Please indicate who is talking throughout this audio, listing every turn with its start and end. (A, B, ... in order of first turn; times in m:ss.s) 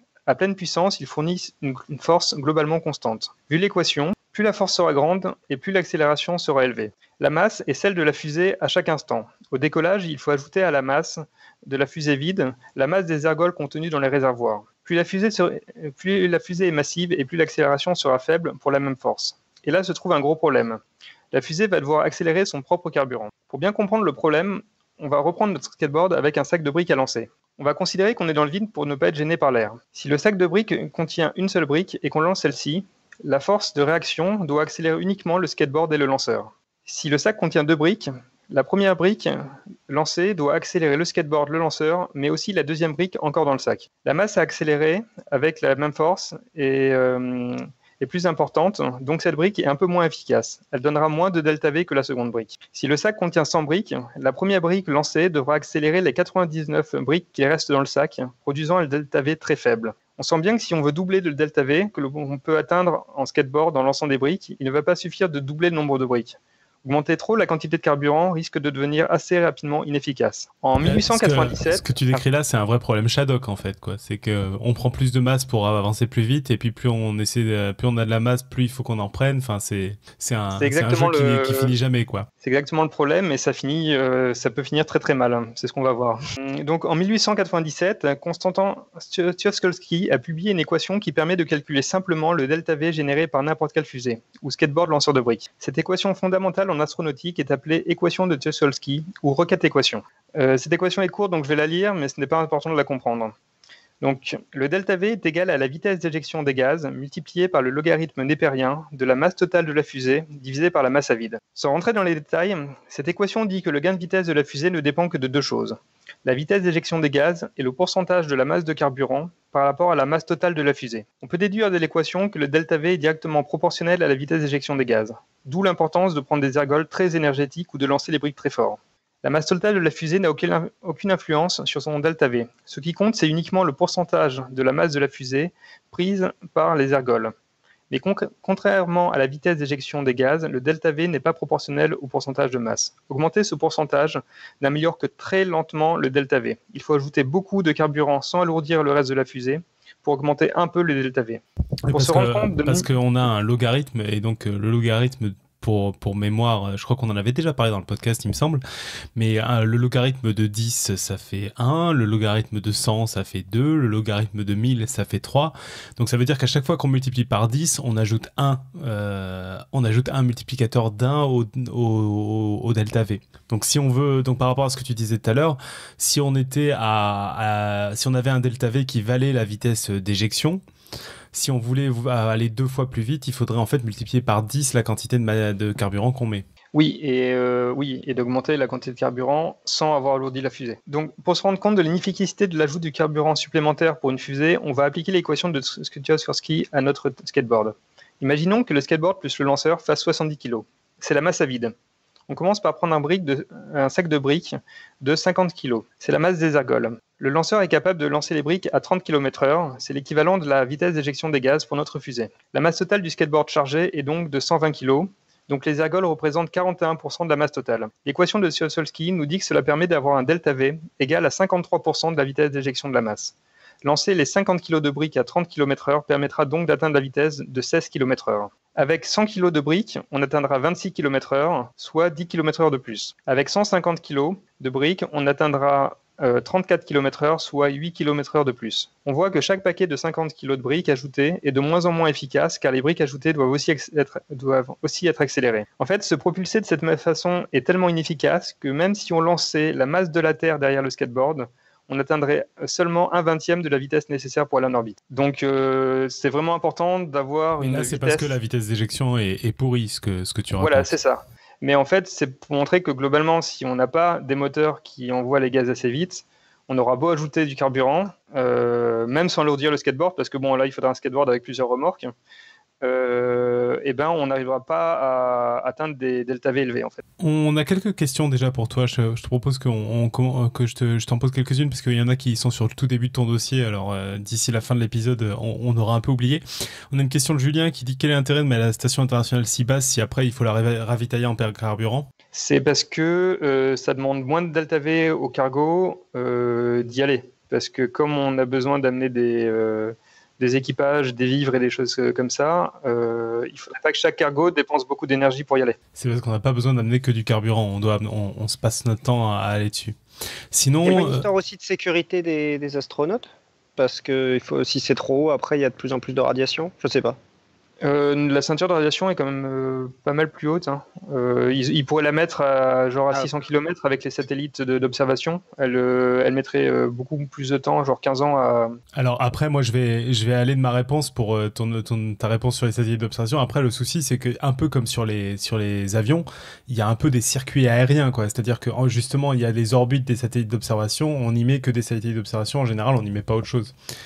0:00.3-0:20.8 A
0:21.3-1:12.2 A
1:10.8-1:22.3 B
1:20.6-1:21.7 A
1:22.4-1:43.3 A
1:44.0-2:17.3 A
2:17.9-2:32.9 A
2:31.8-2:38.6 B
2:39.2-3:00.6 B
3:01.3-3:06.4 B
3:06.7-3:21.7 A
3:22.3-4:18.3 A
4:17.6-4:20.9 B
4:20.6-4:32.1 A
4:32.8-4:37.0 A
4:37.2-4:52.1 B
4:52.3-5:05.8 A
5:06.0-5:10.0 B
5:10.5-5:11.3 B
5:10.8-5:17.2 C
5:17.8-5:28.8 A
5:29.0-5:43.8 B